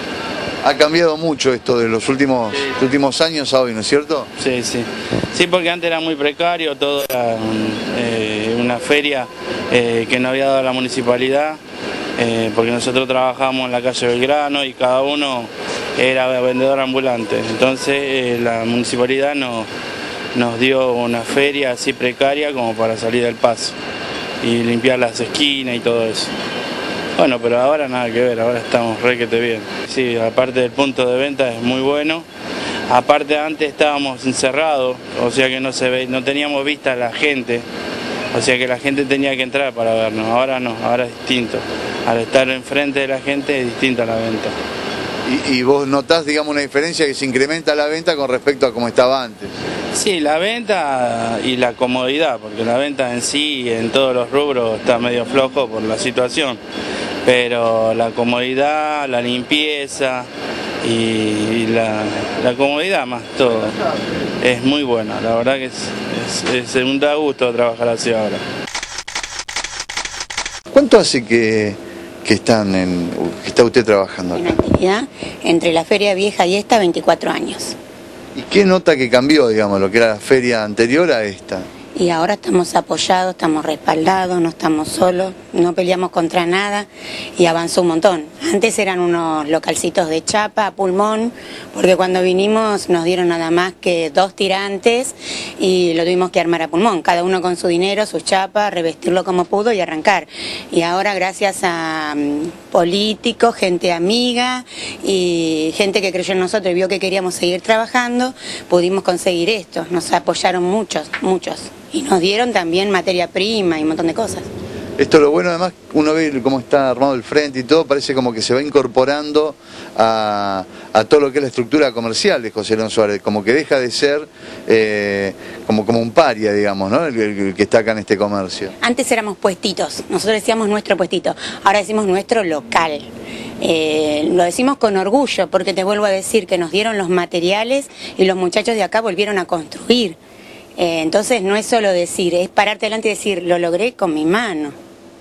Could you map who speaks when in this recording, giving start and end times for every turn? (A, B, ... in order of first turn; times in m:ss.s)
0:00.6-0:04.3 A
0:04.4-0:11.6 B
0:12.2-0:19.7 B
0:20.3-0:23.8 B
0:24.4-0:26.3 B
0:27.2-0:32.3 B
0:32.9-0:37.6 B
0:38.3-0:44.5 B
0:45.2-0:49.5 A
0:49.9-0:56.6 B
0:57.2-1:00.3 B
1:00.8-1:03.8 B
1:04.4-1:08.4 B
1:10.7-1:14.5 A
1:14.3-1:17.8 C
1:18.3-1:21.7 A
1:22.0-1:54.5 C
1:55.0-2:08.7 A
2:08.8-2:13.1 C
2:13.6-2:20.2 C
2:20.8-2:24.7 C